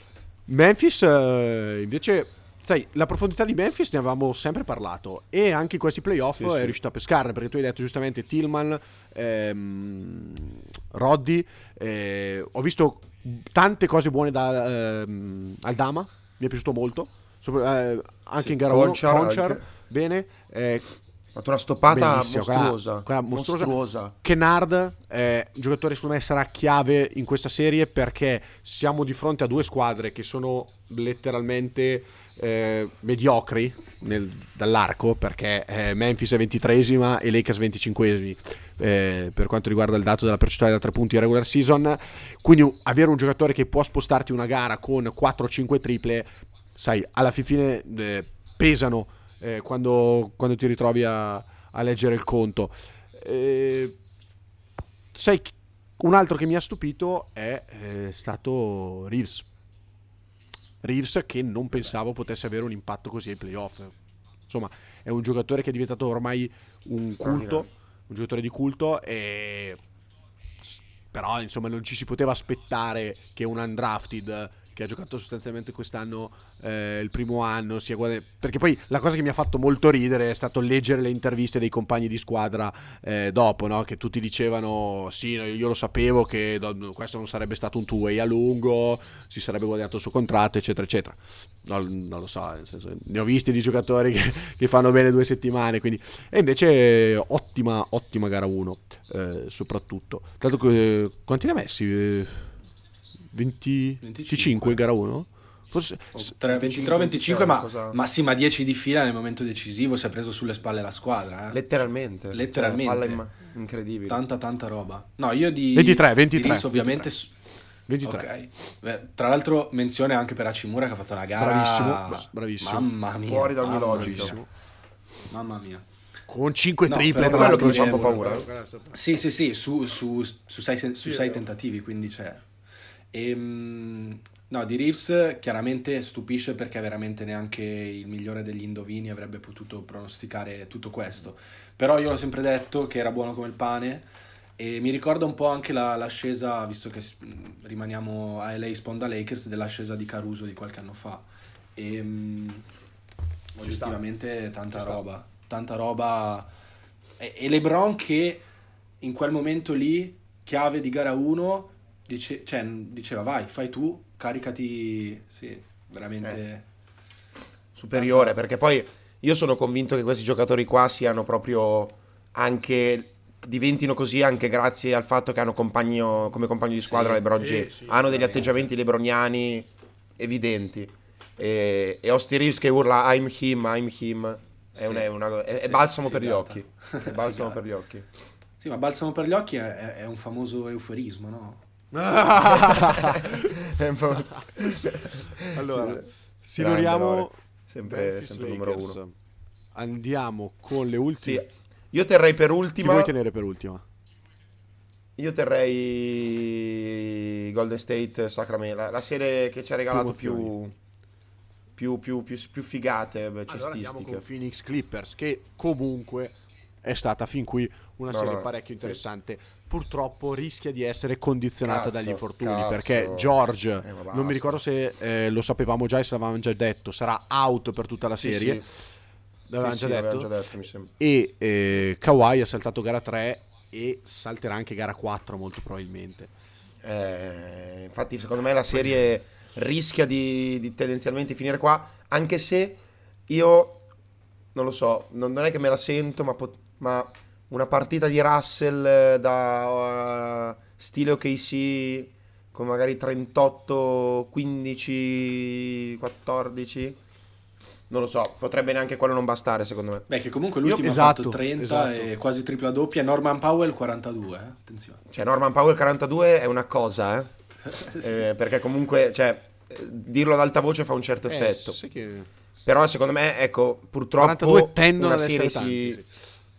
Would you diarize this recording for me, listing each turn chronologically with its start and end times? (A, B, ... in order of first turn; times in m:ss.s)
0:00.5-0:20.9 A
0:06.4-0:06.7 B
0:18.4-0:19.6 B
0:21.3-0:24.1 B
0:21.9-0:54.0 A
0:55.1-0:59.5 A
1:00.8-1:03.9 A
1:04.5-1:09.8 A
1:07.1-1:07.7 B
1:10.6-1:42.5 A
1:43.3-1:46.3 A
1:44.0-1:44.8 C
1:46.1-1:51.7 C
1:46.5-1:48.0 B
1:51.5-1:54.2 B
1:52.3-1:53.2 C
1:54.1-1:57.3 C
1:55.7-1:57.1 A
1:57.9-1:58.3 A
1:58.0-2:04.4 C
2:01.4-2:02.9 A
2:03.2-2:04.3 B
2:03.9-2:04.5 A
2:05.3-2:05.8 C
2:06.3-2:09.0 A
2:06.9-2:12.4 C
2:07.2-2:08.5 B
2:11.0-2:11.4 A
2:13.1-2:24.0 C
2:24.6-2:32.7 C
2:33.6-2:36.5 C
2:33.6-2:34.0 A
2:34.7-2:35.0 A
2:37.2-2:38.4 C
2:39.0-2:46.6 C
2:47.7-3:08.0 B
2:47.9-2:48.4 C
2:56.9-2:58.7 A
3:04.8-3:07.6 C
3:08.6-3:11.6 C
3:11.9-3:13.6 A
3:12.4-3:16.0 B
3:15.5-3:17.3 A
3:16.6-3:19.0 B
3:17.9-3:19.1 A
3:19.7-3:21.4 A
3:21.2-3:23.1 B
3:22.8-3:23.8 A
3:25.2-3:30.7 B
3:29.9-3:30.5 A
3:31.8-3:34.2 B
3:33.5-3:48.6 A
3:38.1-3:39.0 B
3:41.6-3:44.6 B
3:48.2-3:48.6 B
3:49.5-3:50.3 A
3:49.6-3:50.9 B
3:51.0-3:56.3 A
3:56.8-4:03.8 B
4:04.5-4:17.0 B
4:17.9-4:20.0 B
4:20.1-4:25.0 C
4:20.6-4:21.0 B
4:20.7-4:22.1 A
4:25.1-4:27.3 B
4:27.7-4:28.0 C
4:28.0-4:31.8 B
4:31.3-4:32.3 A
4:32.6-4:36.0 B
4:34.2-4:36.1 A